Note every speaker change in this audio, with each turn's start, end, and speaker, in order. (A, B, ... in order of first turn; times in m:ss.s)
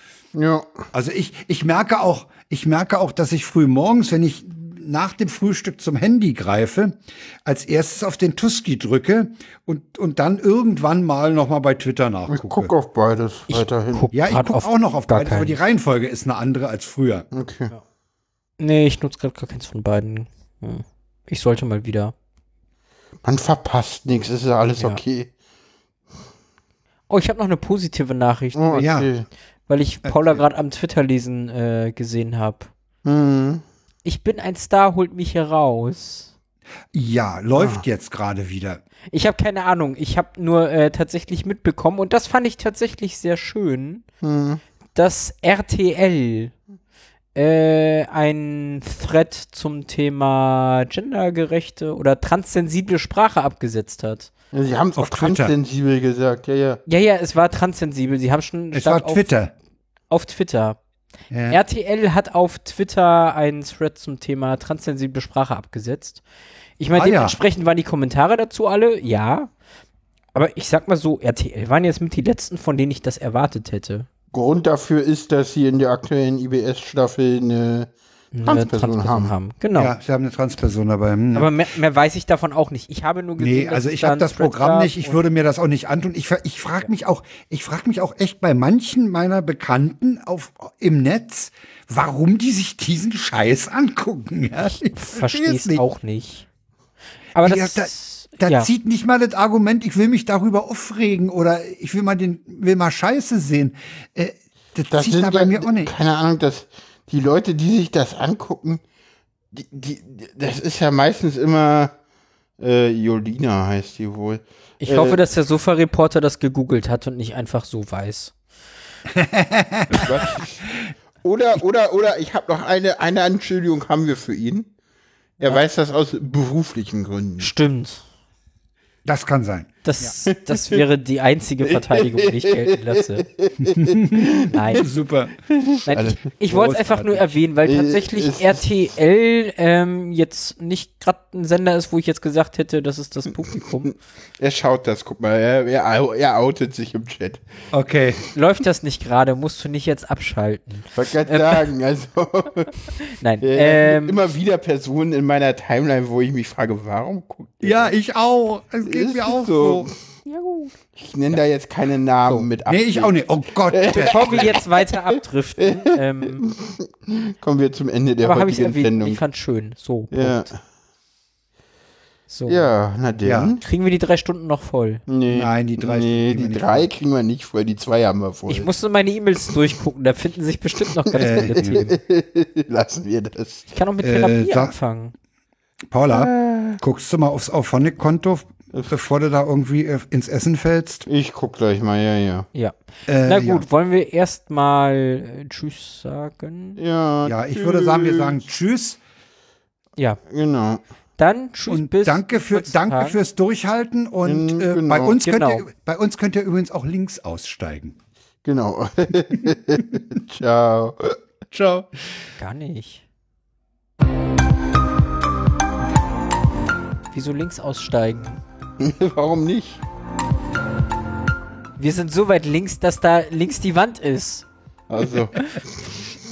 0:00.4-0:00.7 A
0:00.9-0:12.7 B
0:12.3-0:14.1 A
0:13.5-0:15.6 C
0:14.1-0:17.3 B
0:17.3-0:17.7 A
0:18.6-0:22.1 C
0:23.2-0:25.3 A
0:27.1-0:29.0 C
0:28.6-0:29.3 A
0:28.8-0:29.1 B
0:29.7-0:32.7 C
0:30.0-0:30.4 B
0:33.0-0:33.6 A
0:34.0-0:36.3 C
0:36.9-0:38.8 B
0:39.1-0:44.0 C
0:44.2-0:44.6 A
0:45.0-0:46.5 C
0:47.4-0:54.3 C
0:54.5-0:56.8 A
0:55.0-0:55.5 B
0:56.9-0:59.3 C
0:58.7-0:59.5 B
1:00.1-1:00.8 C
1:01.3-1:01.6 B
1:01.5-1:06.2 C
1:06.8-1:09.5 C
1:06.9-1:07.4 B
1:10.3-1:14.1 C
1:14.3-1:17.9 A
1:18.3-1:19.9 C
1:18.4-1:19.3 A
1:19.8-1:21.5 B
1:21.3-1:25.2 C
1:23.4-1:35.8 B
1:34.9-1:36.5 C
1:37.4-1:38.7 C
1:37.4-1:45.9 B
1:44.9-1:48.8 A
1:49.5-1:51.9 A
1:52.6-1:55.2 A
1:54.8-1:58.3 C
1:59.1-2:00.1 B
1:59.9-2:04.7 A
2:05.4-2:07.5 A
2:07.4-2:08.0 C
2:09.0-2:10.1 B
2:09.8-2:13.3 C
2:10.3-2:10.8 A
2:11.6-2:14.9 A
2:13.6-2:15.4 B
2:14.5-2:14.9 C
2:15.5-2:16.2 A
2:15.9-2:24.0 C
2:16.4-2:17.4 B
2:17.6-2:18.6 A
2:24.4-2:27.4 A
2:27.7-2:28.2 B
2:28.3-2:31.7 C
2:31.0-2:32.9 A
2:33.0-2:34.2 C
2:33.4-2:37.9 A
2:37.6-2:39.9 B
2:38.8-2:40.0 A
2:40.2-2:40.7 C
2:41.0-2:45.0 A
2:42.7-2:44.6 B
2:43.9-2:46.5 C
2:45.6-2:49.2 A
2:48.2-2:50.5 C
2:50.1-2:50.5 A
2:52.3-2:52.7 C
2:52.5-2:53.6 A
2:53.2-2:53.6 B
2:53.6-2:55.0 C
2:55.1-2:58.7 A
2:55.3-2:56.9 B
2:58.5-3:02.0 C
3:01.1-3:03.7 A
3:01.2-3:01.8 B
3:03.7-3:05.1 C
3:04.0-3:04.7 B
3:05.9-3:11.0 B
3:06.1-3:06.8 A
3:11.1-3:12.5 A
3:12.5-3:16.8 C
3:13.1-3:13.6 B
3:16.8-3:18.4 A
3:17.3-3:19.0 B
3:20.3-3:20.8 A
3:21.2-3:23.2 C
3:21.6-3:28.0 B
3:24.2-3:25.2 A
3:25.2-3:25.7 C
3:28.4-3:31.2 A
3:31.5-3:31.9 B
3:32.4-3:33.1 C
3:37.1-3:38.4 C
3:38.8-3:39.8 A
3:41.8-3:44.5 C
3:44.9-3:46.0 A